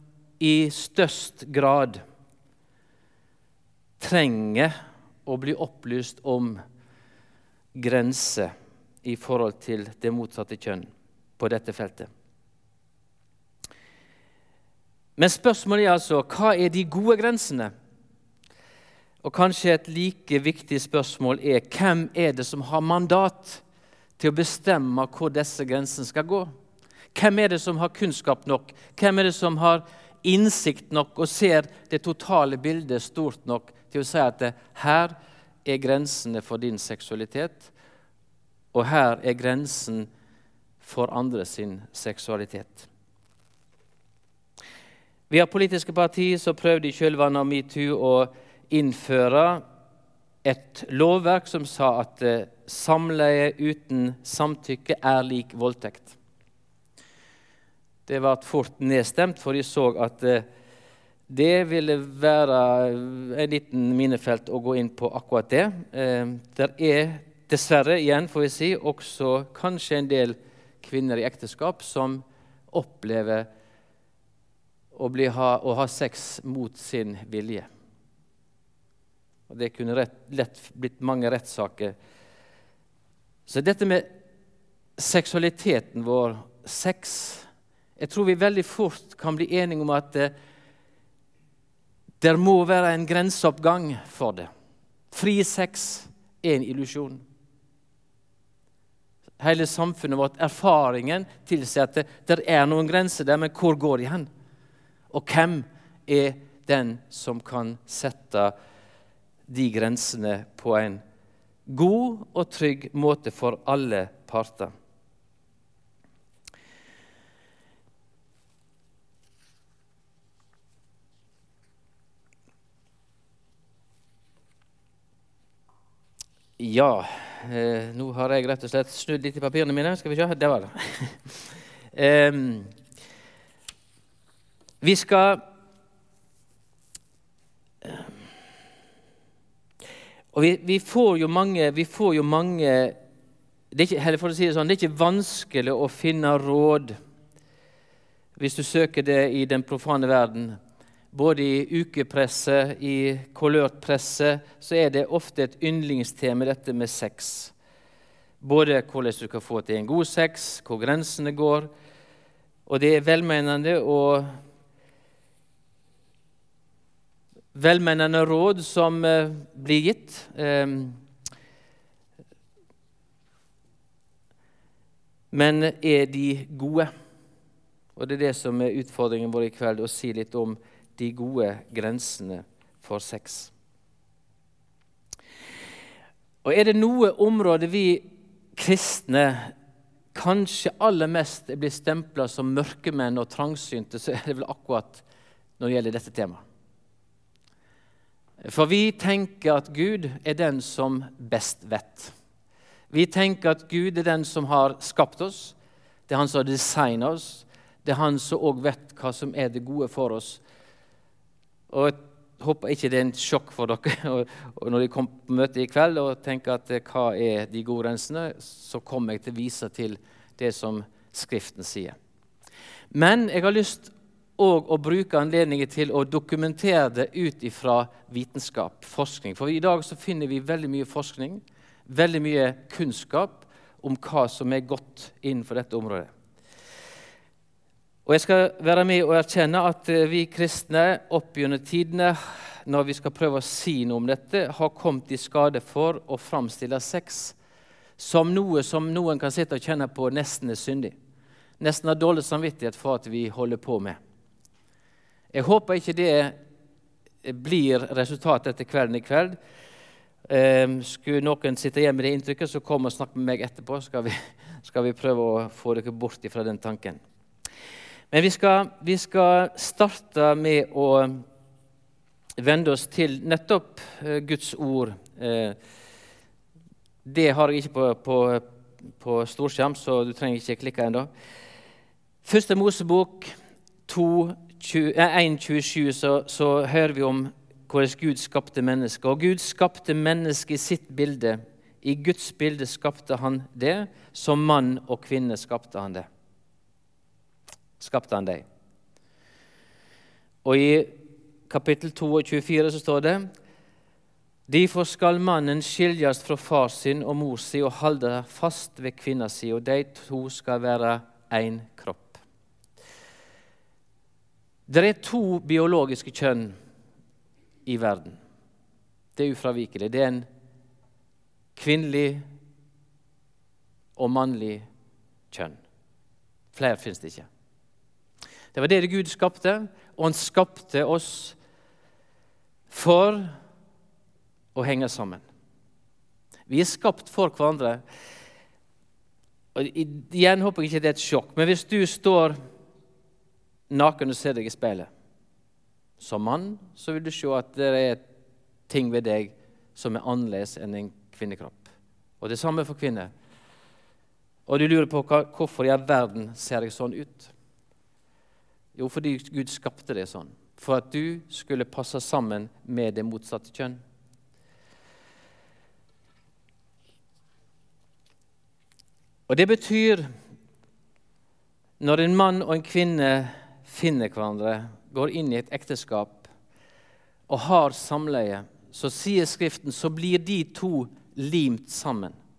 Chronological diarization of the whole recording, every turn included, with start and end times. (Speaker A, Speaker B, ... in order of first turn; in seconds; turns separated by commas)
Speaker A: 0.4-2.0, Speaker A: 4.0-4.7, Speaker A: 5.2-6.6, Speaker A: 7.7-8.5, Speaker A: 9.0-12.1, Speaker A: 15.2-17.7, Speaker A: 19.2-23.6, Speaker A: 24.2-26.5, Speaker A: 27.1-37.7, Speaker A: 38.7-40.1, Speaker A: 40.8-42.9, Speaker A: 45.3-49.6, Speaker A: 50.4-56.1, Speaker A: 58.1-60.5, Speaker A: 61.3-73.5, Speaker A: 74.9-77.7, Speaker A: 79.5-81.9, Speaker A: 83.5-84.1, Speaker A: 85.0-87.5, Speaker A: 88.0-90.3, Speaker A: 92.2-94.5, Speaker A: 95.1-97.2, Speaker A: 99.4-104.3, Speaker A: 105.1-108.5, Speaker A: 109.5-111.0, Speaker A: 111.7-114.7, Speaker A: 126.6-131.3, Speaker A: 131.9-132.7, Speaker A: 134.8-135.4, Speaker A: 137.8-138.1, Speaker A: 140.3-142.9, Speaker A: 143.7-146.9, Speaker A: 148.3-150.6, Speaker A: 151.1-157.5, Speaker A: 158.4-161.7, Speaker A: 162.7-164.4, Speaker A: 167.5-171.0, Speaker A: 175.3-176.9, Speaker A: 177.9-183.5, Speaker A: 186.4-189.5, Speaker A: 190.1-195.0, Speaker A: 195.6-196.4, Speaker A: 198.4-202.1, Speaker A: 202.9-205.5, Speaker A: 206.1-210.4, Speaker A: 211.7-221.9, Speaker A: 222.9-236.1, Speaker A: 238.1-247.3, Speaker A: 248.0-250.9, Speaker A: 251.6-254.0, Speaker A: 255.3-256.4, Speaker A: 257.2-259.4, Speaker A: 260.3-267.0, Speaker A: 268.1-271.2, Speaker A: 272.4-275.6, Speaker A: 277.0-278.4, Speaker A: 279.0-281.1, Speaker A: 282.2-283.3, Speaker A: 283.9-296.1, Speaker A: 297.8-298.4, Speaker A: 300.4-301.0, Speaker A: 301.5-303.3, Speaker A: 304.5-312.2, Speaker A: 314.7-316.6, Speaker A: 317.6-318.2, Speaker A: 319.1-320.3, Speaker A: 321.6-322.2, Speaker A: 323.9-324.6, Speaker A: 325.3-325.6, Speaker A: 326.5-327.3, Speaker A: 328.5-331.4, Speaker A: 332.7-333.3, Speaker A: 334.5-335.2, Speaker A: 336.5-337.8, Speaker A: 339.5-342.4, Speaker A: 343.7-344.9, Speaker A: 346.0-348.0, Speaker A: 348.7-351.7, Speaker A: 352.2-353.1, Speaker A: 354.5-357.3, Speaker A: 358.7-363.8, Speaker A: 369.3-370.1, Speaker A: 371.8-376.3, Speaker A: 377.3-382.1